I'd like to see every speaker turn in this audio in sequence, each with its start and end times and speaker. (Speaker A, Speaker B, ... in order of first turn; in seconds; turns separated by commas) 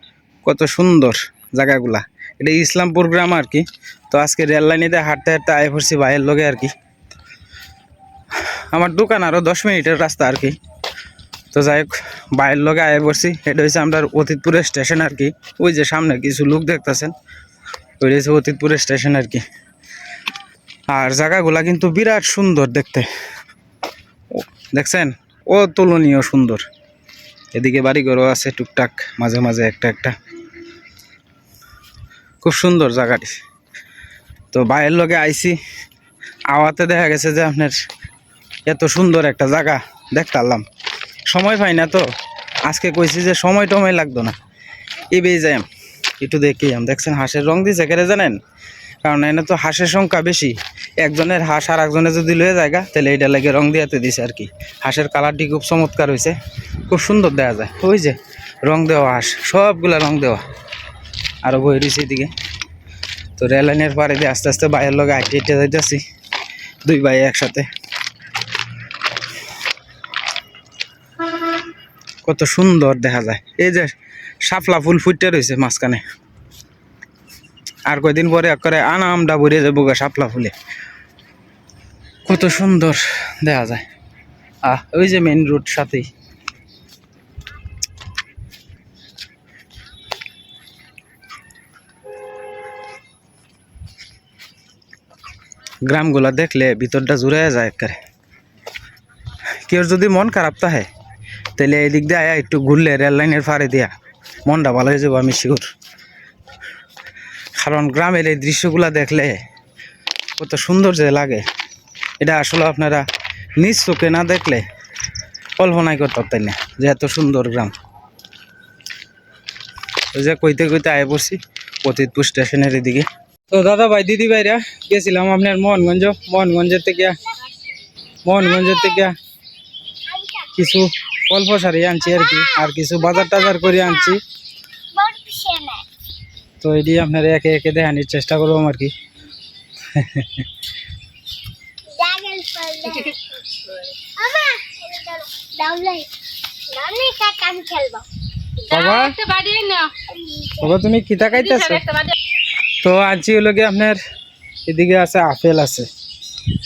Speaker A: 0.4-6.7, Speaker A: 8.7-10.6, Speaker A: 11.5-17.1, Speaker A: 18.0-19.4, Speaker A: 20.9-23.1, Speaker A: 24.4-26.7, Speaker A: 27.5-30.1, Speaker A: 32.4-33.4, Speaker A: 34.5-35.6, Speaker A: 36.5-37.8, Speaker A: 38.7-40.6, Speaker A: 41.3-42.0, Speaker A: 42.7-44.4, Speaker A: 45.1-45.7, Speaker A: 46.2-48.4, Speaker A: 49.0-56.4, Speaker A: 56.9-60.4, Speaker A: 61.4-62.3, Speaker A: 63.4-66.0, Speaker A: 66.8-67.7, Speaker A: 72.2-76.0, Speaker A: 77.9-80.5, Speaker A: 82.2-83.8, Speaker A: 84.7-86.1, Speaker A: 95.9-98.0, Speaker A: 99.7-100.9, Speaker A: 101.6-103.9, Speaker A: 104.5-105.7, Speaker A: 107.6-109.4, Speaker A: 110.4-111.4, Speaker A: 112.2-113.1, Speaker A: 113.6-114.6, Speaker A: 115.6-117.7, Speaker A: 120.1-127.2, Speaker A: 128.2-129.2, Speaker B: 128.4-129.1, Speaker B: 130.1-130.8, Speaker A: 130.6-134.2, Speaker B: 132.0-134.2, Speaker B: 134.9-135.8, Speaker A: 136.6-138.9, Speaker A: 139.9-140.5, Speaker B: 141.9-143.2, Speaker C: 142.9-143.2, Speaker B: 144.2-146.1, Speaker B: 146.7-148.1, Speaker C: 148.6-149.9, Speaker A: 148.7-149.1, Speaker B: 150.1-150.8, Speaker A: 150.6-151.8, Speaker C: 151.2-152.2, Speaker A: 152.8-154.0, Speaker A: 154.7-155.9